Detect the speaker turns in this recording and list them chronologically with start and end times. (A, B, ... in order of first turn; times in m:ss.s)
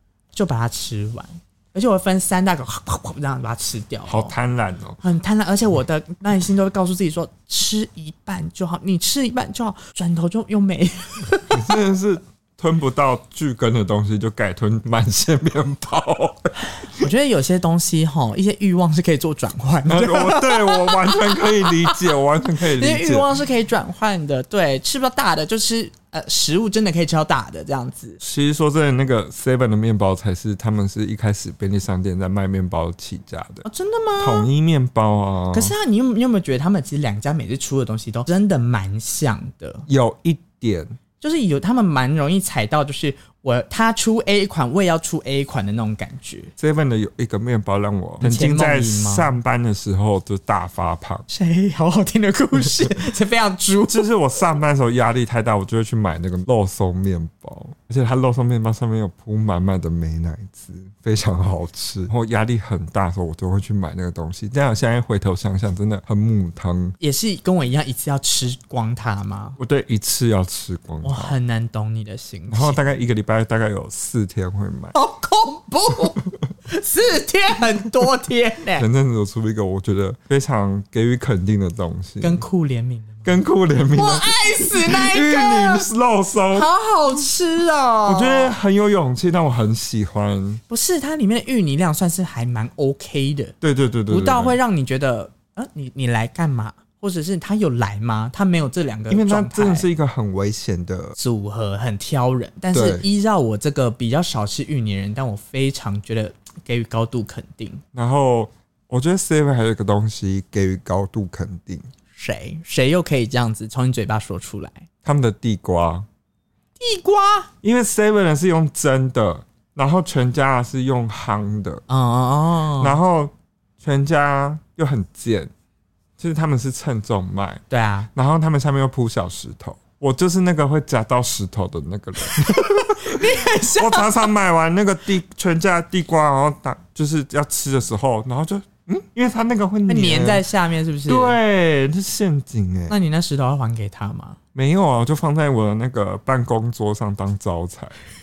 0:00.3-0:04.3 A
0:04.1-0:05.0 B
0:05.0-0:11.8 A
0:11.5-0:17.0 B
0:16.9-0:28.2 A
0:19.9-0:23.3 B
0:28.2-0:33.7 B
0:33.6-0:34.5 A
0:34.2-0:35.8 B
0:35.5-0:39.8 A
0:39.9-0:41.0 B
0:41.2-0:46.5 A
0:46.6-0:51.3 B
0:48.2-0:49.3 A
0:51.3-0:54.1 A
0:53.9-1:07.0 B
1:07.0-1:09.6 A
1:09.6-1:11.4 B
1:11.0-1:12.8 A
1:12.5-1:15.0 B
1:14.9-1:18.9 A
1:18.8-1:22.4 B
1:22.2-1:23.3 A
1:23.2-1:26.7 B
1:23.9-1:25.9 A
1:26.5-1:28.6 A
1:28.0-1:30.6 B
1:30.7-1:33.5 A
1:33.6-1:34.6 B
1:34.1-1:39.9 A
1:39.1-1:41.2 B
1:41.2-1:47.8 A
1:42.7-1:43.0 B
1:47.9-1:51.9 B
1:52.1-1:54.9 A
1:55.0-1:56.1 B
1:56.8-1:57.5 A
1:57.6-2:01.8 B
2:01.9-2:03.0 A
2:02.8-2:05.5 B
2:06.2-2:07.6 B
2:07.7-2:08.1 A
2:08.1-2:20.4 B
2:12.6-2:14.3 A
2:19.9-2:21.4 A
2:21.1-2:23.0 B
2:22.9-2:24.4 A
2:24.6-2:28.0 B